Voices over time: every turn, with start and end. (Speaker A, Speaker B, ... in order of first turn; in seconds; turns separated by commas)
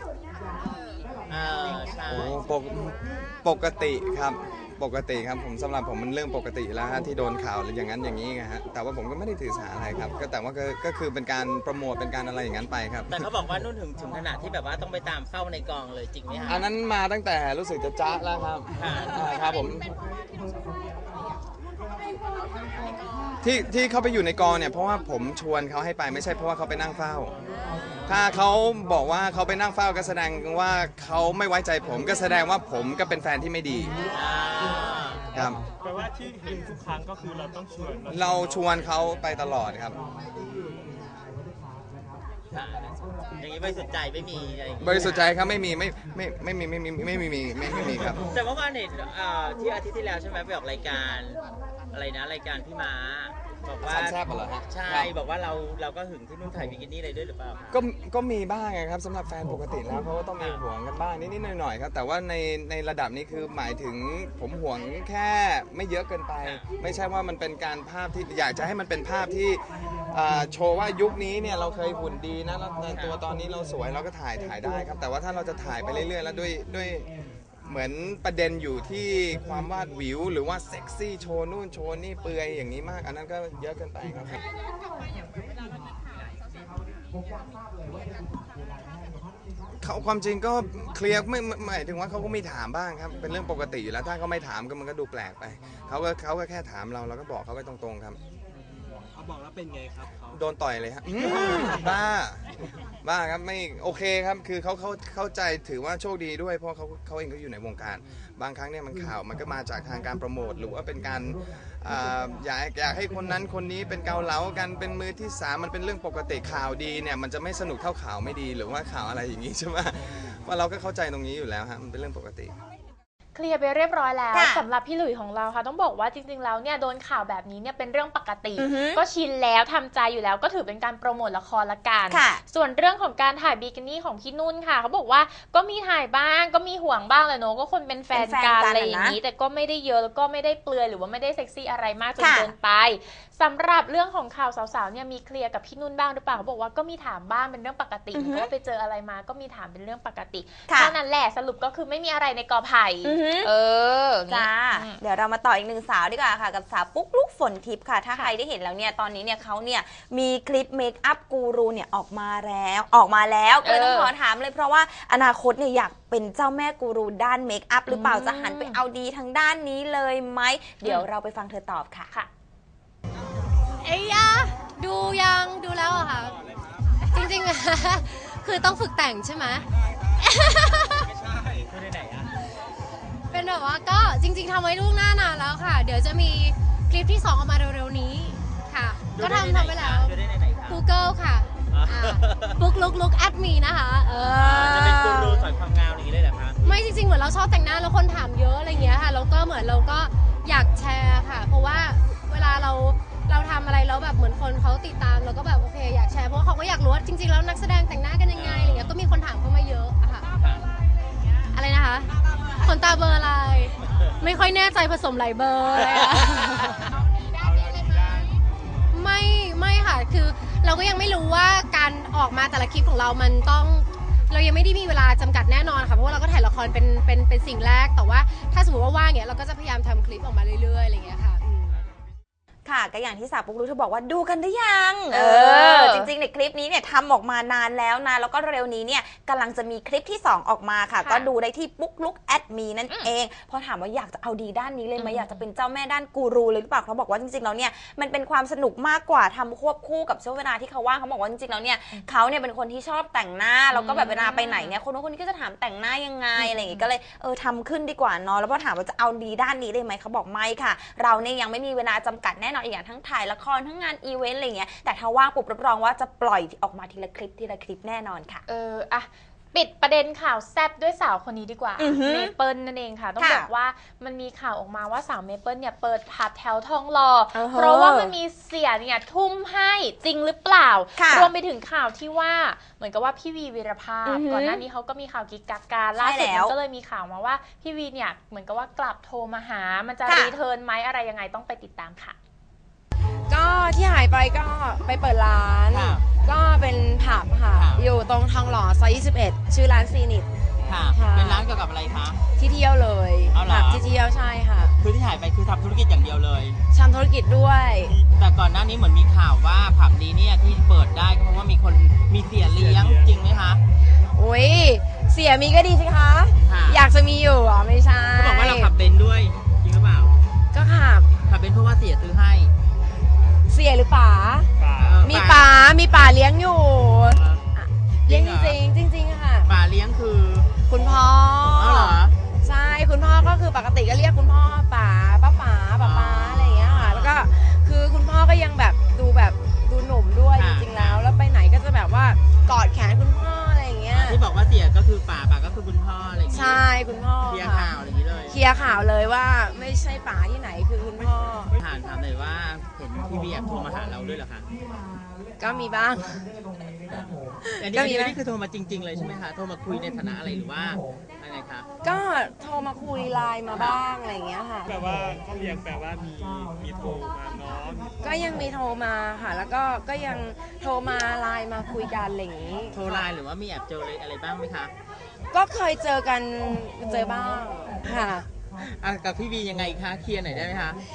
Speaker A: 1.3-2.4, Speaker B: 2.1-13.3, Speaker A: 13.1-16.6, Speaker B: 16.4-19.9, Speaker A: 18.7-19.2, Speaker B: 23.4-27.3, Speaker B: 28.1-34.0, Speaker A: 34.1-35.2, Speaker B: 35.3-35.6, Speaker C: 35.8-38.9, Speaker B: 38.1-40.0, Speaker A: 42.5-45.3, Speaker B: 44.8-48.2, Speaker A: 47.9-51.4, Speaker A: 51.9-57.8, Speaker B: 53.8-55.1, Speaker B: 57.7-77.1, Speaker A: 72.9-73.2, Speaker B: 77.7-84.4, Speaker B: 89.8-98.2, Speaker B: 100.3-102.4, Speaker C: 101.6-101.8, Speaker B: 103.0-122.5, Speaker D: 123.3-155.0, Speaker E: 124.3-124.7, Speaker E: 128.6-129.0, Speaker E: 132.1-132.4, Speaker E: 138.1-139.2, Speaker E: 142.2-142.5, Speaker E: 148.1-148.5, Speaker E: 150.7-150.9, Speaker E: 153.0-153.5, Speaker E: 154.3-172.1, Speaker D: 163.6-164.1, Speaker D: 167.9-168.8, Speaker F: 173.7-176.3, Speaker F: 177.1-181.1, Speaker A: 181.2-182.3, Speaker F: 183.3-195.5, Speaker A: 189.0-190.8, Speaker A: 191.7-192.6, Speaker A: 194.3-196.6, Speaker F: 196.6-210.3, Speaker A: 198.7-199.0, Speaker A: 208.3-208.9, Speaker A: 210.4-210.7, Speaker F: 211.5-216.7, Speaker A: 215.7-218.4, Speaker F: 218.9-231.8, Speaker E: 232.7-268.4, Speaker D: 235.1-236.1, Speaker D: 241.0-241.3, Speaker D: 245.0-245.4, Speaker D: 253.7-254.8, Speaker D: 256.4-256.8, Speaker D: 268.5-292.2, Speaker E: 271.8-272.3, Speaker E: 273.2-273.5, Speaker E: 277.3-278.1, Speaker E: 281.0-281.3, Speaker E: 284.1-284.6, Speaker E: 285.9-286.6, Speaker E: 290.1-290.3, Speaker G: 293.3-300.3, Speaker A: 295.7-296.0, Speaker A: 297.5-297.8, Speaker A: 300.6-302.2, Speaker G: 300.9-301.4, Speaker G: 302.4-304.7, Speaker A: 303.3-303.8, Speaker A: 304.8-306.6, Speaker G: 306.7-307.9, Speaker A: 308.1-313.6, Speaker C: 312.4-313.2, Speaker G: 314.1-318.7, Speaker A: 316.4-316.9, Speaker A: 318.1-320.1, Speaker G: 320.5-321.1, Speaker A: 321.2-322.5, Speaker G: 323.5-324.5, Speaker C: 324.6-325.1, Speaker A: 324.8-325.5, Speaker G: 325.0-329.5, Speaker A: 327.1-327.4, Speaker A: 328.1-328.6, Speaker A: 329.4-330.5, Speaker G: 330.7-344.2, Speaker A: 331.5-332.1, Speaker A: 335.8-337.2, Speaker A: 340.3-341.1, Speaker A: 343.9-346.6, Speaker G: 346.3-351.6, Speaker A: 347.2-348.4, Speaker A: 351.6-354.5, Speaker G: 355.4-356.1, Speaker G: 357.4-358.2, Speaker A: 357.6-361.7, Speaker G: 361.8-364.8, Speaker A: 363.5-363.8, Speaker C: 364.6-367.9, Speaker G: 368.0-373.1, Speaker A: 372.7-374.7, Speaker G: 375.3-378.3, Speaker A: 378.6-380.8